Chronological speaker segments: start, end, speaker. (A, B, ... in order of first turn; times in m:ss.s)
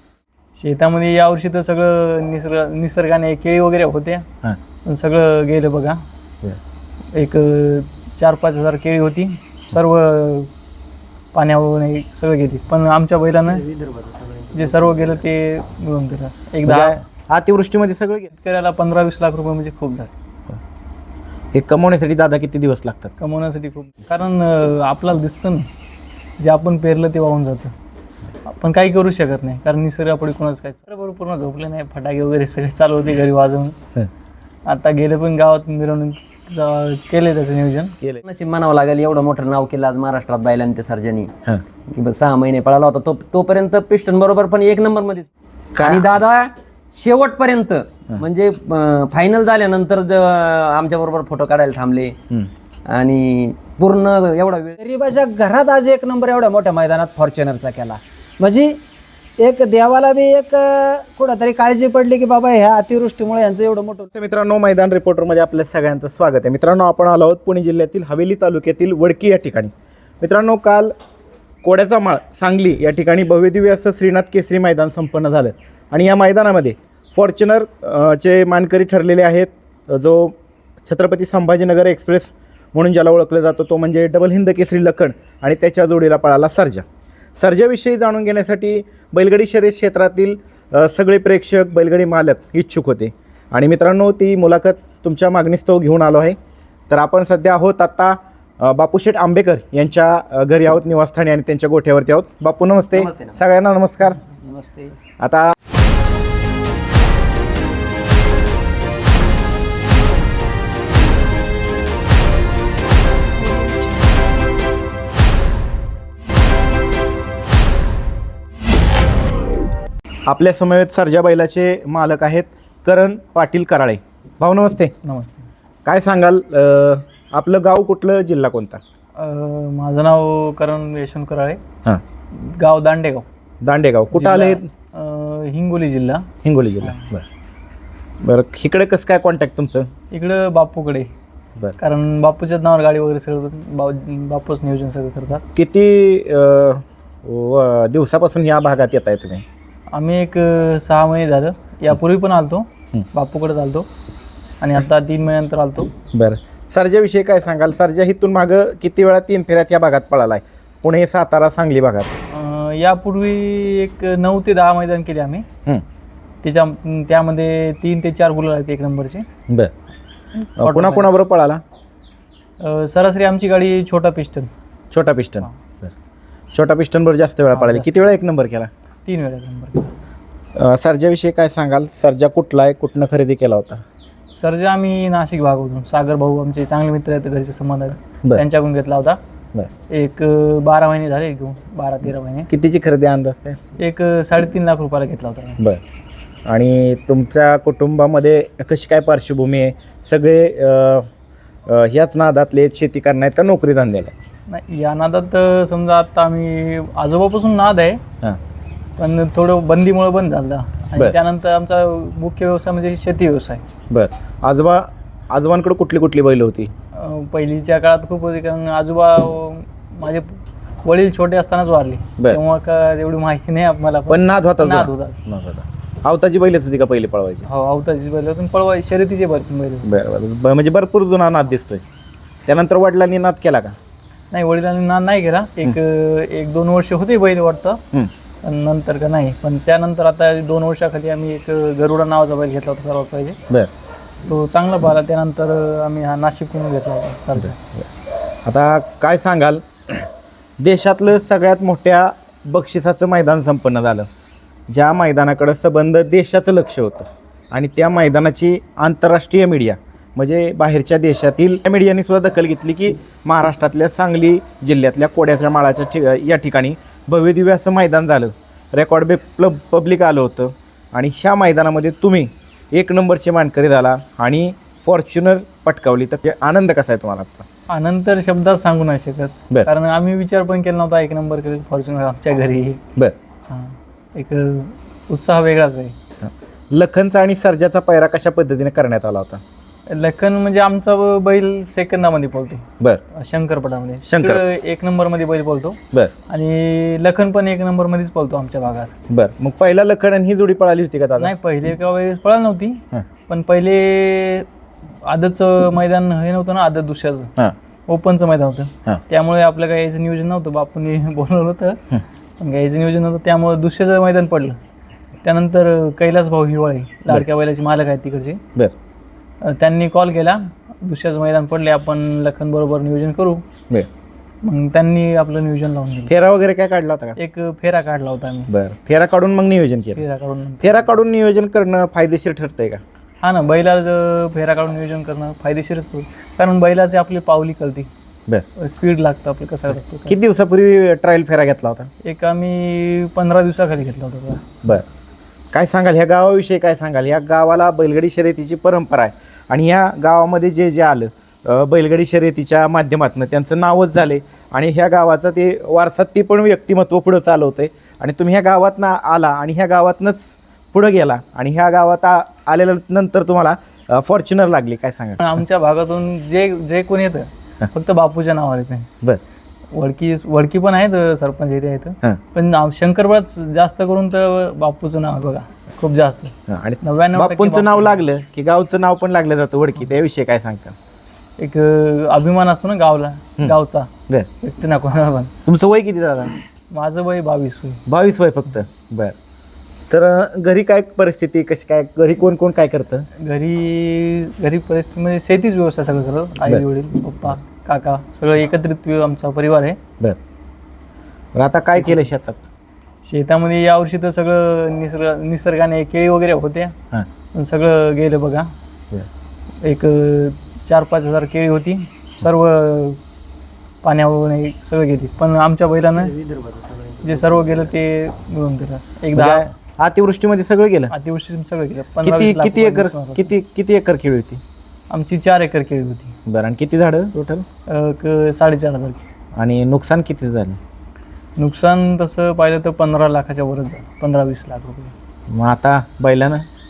0:00.6-0:04.3 A
0:04.8-0:06.0 A
0:07.1-0:10.5 A
0:11.3-0:13.8 A
0:14.4-0:17.0 A
0:16.6-0:18.3 B
0:18.3-0:20.1 A
0:21.5-0:23.1 B
0:23.2-0:25.7 A
0:26.4-0:27.7 A
0:28.4-0:33.8 A
0:34.7-0:38.0 A
0:38.2-0:41.3 C
0:41.9-0:52.2 C
0:45.8-0:46.1 B
0:52.9-0:54.8 C
0:54.8-0:58.8 D
0:59.4-1:04.1 D
1:04.1-1:10.9 B
1:11.6-1:20.3 B
1:20.9-1:26.8 B
1:27.4-1:36.4 B
1:36.9-1:44.2 B
1:45.2-1:45.5 B
2:00.3-2:05.0 B
2:05.0-2:05.5 A
2:05.8-2:08.8 B
2:09.2-2:11.6 A
2:12.3-2:13.3 A
2:13.6-2:14.7 B
2:14.1-2:16.3 A
2:16.4-2:17.2 B
2:18.2-2:19.9 B
2:20.1-2:21.1 A
2:21.8-2:25.4 A
2:25.5-2:29.4 B
2:29.9-2:33.9 A
2:34.6-2:35.9 A
2:36.1-2:42.1 B
2:42.3-2:45.4 A
2:46.4-2:49.2 A
2:50.4-2:51.1 A
2:50.6-2:51.6 B
2:52.6-2:54.5 A
2:54.9-2:55.9 B
2:56.5-2:58.7 B
2:57.5-2:57.9 A
2:59.0-2:59.9 A
3:00.6-3:03.8 B
3:04.3-3:09.2 A
3:09.9-3:12.5 A
3:12.5-3:13.6 B
3:13.8-3:15.6 A
3:16.4-3:21.1 B
3:21.7-3:24.1 B
3:24.5-3:28.0 A
3:29.0-3:33.6 A
3:33.9-3:36.7 B
3:36.9-3:45.2 A
3:44.1-3:47.4 B
3:47.4-3:49.9 A
3:49.8-3:51.8 B
3:52.4-3:53.8 B
3:54.3-3:57.8 A
3:58.4-4:03.4 A
4:04.2-4:07.6 A
4:07.4-4:07.8 B
4:08.4-4:10.1 B
4:10.6-4:14.1 B
4:14.7-4:37.4 B
4:37.7-4:42.8 A
4:43.5-4:45.9 A
4:46.2-4:49.4 B
4:49.9-4:58.9 A
4:54.1-4:54.4 B
4:59.1-5:01.3 B
5:01.2-5:04.5 A
5:05.0-5:07.3 A
5:07.9-5:11.8 A
5:12.4-5:14.6 A
5:15.2-5:18.4 A
5:19.4-5:23.4 A
5:24.4-5:26.1 A
5:26.1-5:27.2 B
5:27.2-5:28.5 A
5:28.5-5:30.0 B
5:30.0-5:30.9 A
5:30.6-5:32.8 B
5:33.2-5:37.9 A
5:38.6-5:40.2 A
5:40.1-5:41.9 B
5:42.0-5:44.6 A
5:45.5-6:05.3 B
6:05.2-6:08.9 A
6:09.7-6:17.9 A
6:16.5-6:20.8 B
6:21.4-6:23.9 A
6:24.4-6:25.3 A
6:25.4-6:26.3 B
6:26.7-6:27.8 A
6:27.9-6:29.2 B
6:29.9-6:33.1 B
6:33.2-6:39.8 A
6:41.3-6:42.4 B
6:43.0-6:46.8 A
6:47.3-6:48.5 A
6:49.6-6:53.0 A
6:53.8-6:56.2 A
6:57.0-6:59.4 A
6:59.1-7:00.9 B
7:00.9-7:03.3 A
7:02.0-7:04.4 B
7:04.9-7:06.2 A
7:06.3-7:07.4 B
7:07.7-7:09.0 A
7:09.4-7:10.6 B
7:11.4-7:14.9 A
7:15.3-7:16.4 B